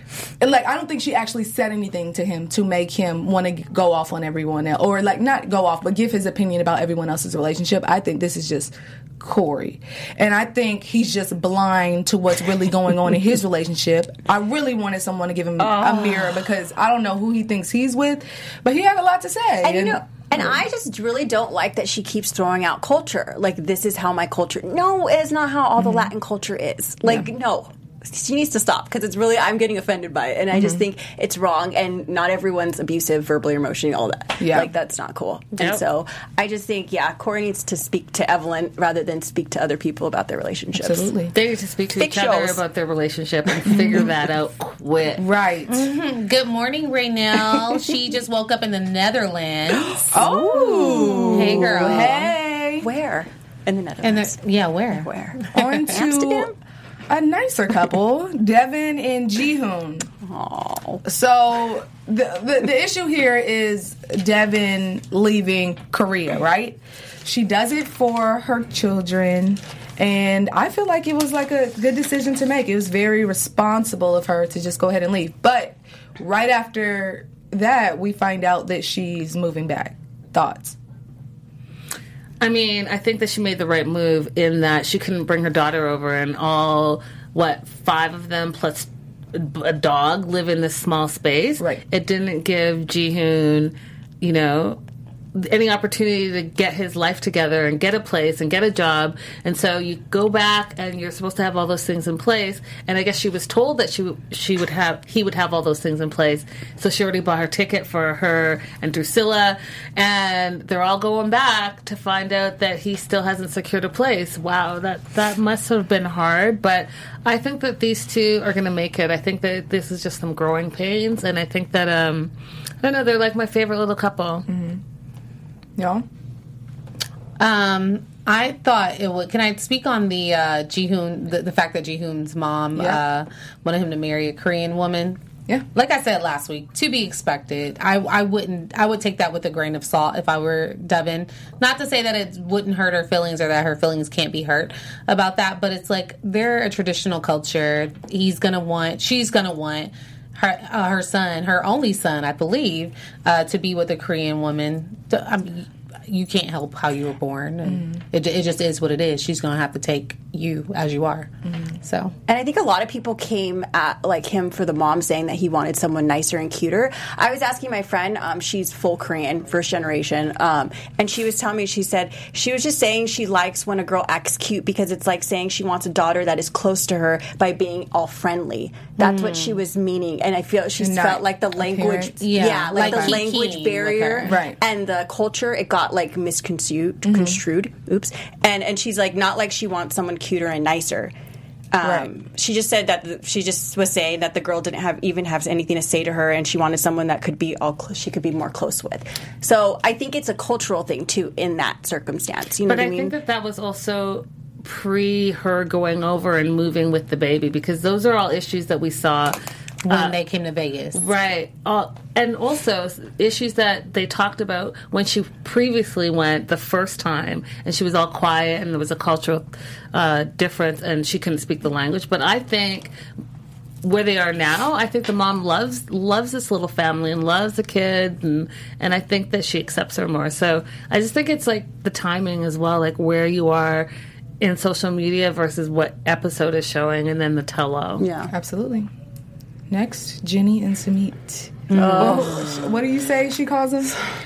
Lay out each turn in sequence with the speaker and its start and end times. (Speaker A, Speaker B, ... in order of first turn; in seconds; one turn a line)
Speaker A: 0.4-20.6
Speaker B: 15.6-16.4
Speaker B: 19.6-41.1
Speaker A: 25.8-26.1
Speaker A: 30.5-30.8
Speaker A: 34.4-34.7
Speaker A: 40.8-41.3
Speaker C: 41.3-45.2
Speaker B: 42.0-42.6
Speaker A: 45.2-45.9
Speaker D: 45.7-50.0
Speaker B: 49.8-56.5
Speaker A: 50.1-52.9
Speaker D: 51.3-52.2
Speaker D: 54.0-55.8
Speaker A: 55.5-56.5
Speaker A: 57.1-60.1
Speaker B: 60.2-61.0
Speaker A: 61.0-80.8
Speaker C: 82.4-94.8
Speaker C: 95.3-122.3
Speaker C: 122.8-124.5
Speaker A: 124.5-124.8
Speaker A: 125.8-126.0
Speaker D: 127.4-135.2
Speaker D: 135.7-162.1
Speaker A: 157.7-157.9
Speaker A: 161.5-161.7
Speaker B: 162.3-191.1
Speaker A: 179.0-179.4
Speaker A: 180.8-183.2
Speaker D: 182.2-184.3
Speaker A: 184.2-184.6
Speaker A: 187.0-187.4
Speaker B: 191.7-203.1
Speaker A: 191.8-192.1
Speaker C: 202.7-209.3
Speaker D: 209.8-211.1
Speaker C: 209.9-210.2
Speaker C: 210.9-222.9
Speaker C: 223.8-233.9
Speaker C: 234.4-238.0
Speaker B: 238.0-238.3
Speaker A: 238.3-238.9
Speaker A: 239.7-244.0
Speaker B: 241.7-242.7